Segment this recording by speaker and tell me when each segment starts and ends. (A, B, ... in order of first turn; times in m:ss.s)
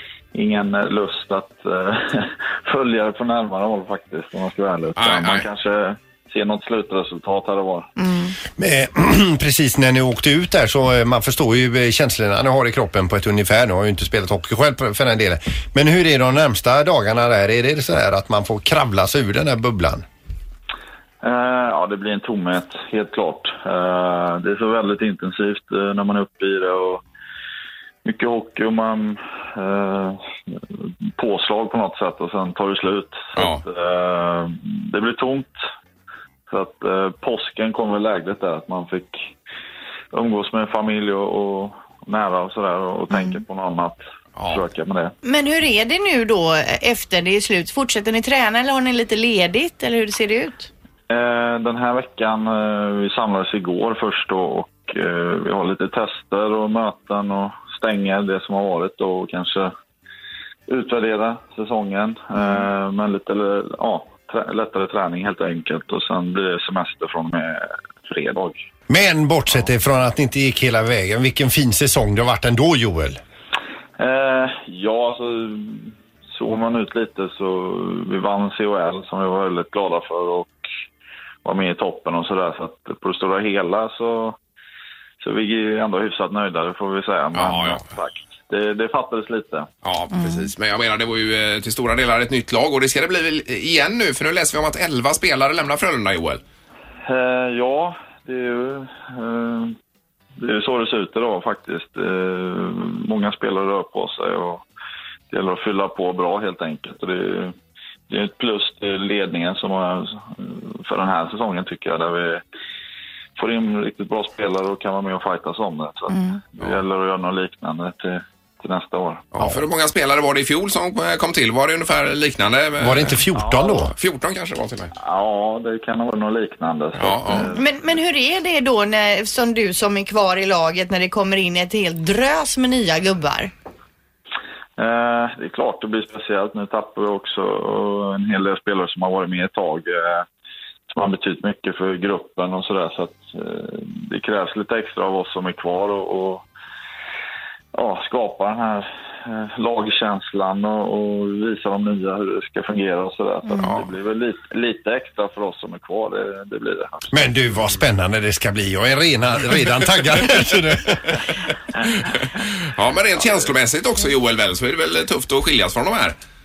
0:00.3-0:07.9 A
0:05.0-0:05.4 B
0:08.0-0:08.4 C
0:08.6-0:20.0 D
0:21.2-0:27.0 A
0:28.0-0:35.6 A
0:33.4-0:33.6 B
0:36.5-0:39.2 A
0:40.1-0:45.1 A
0:43.1-0:43.4 C
0:44.4-0:44.6 B
0:45.2-0:50.7 C
0:51.1-0:59.7 A
1:00.7-1:08.6 A
1:08.9-1:13.2 D
1:14.0-1:20.6 A
1:21.4-1:24.4 A
1:25.2-1:29.7 A
1:27.3-1:27.9 B
1:29.8-1:36.4 B
1:30.1-1:30.5 C
1:37.0-1:39.7 A
1:40.4-1:44.6 A
1:45.3-1:47.5 A
1:48.1-1:52.4 A
1:53.4-1:59.2 A
1:56.1-1:56.4 C
1:59.3-2:04.9 B
2:02.8-2:03.9 D
2:03.3-2:03.8 A
2:05.0-2:07.7 A
2:06.9-2:07.5 B
2:07.5-2:13.5 C
2:14.8-2:20.2 A
2:20.9-2:26.4 A
2:27.7-2:37.4 A
2:33.6-2:33.9 B
2:37.1-2:41.2 D
2:42.2-2:46.2 B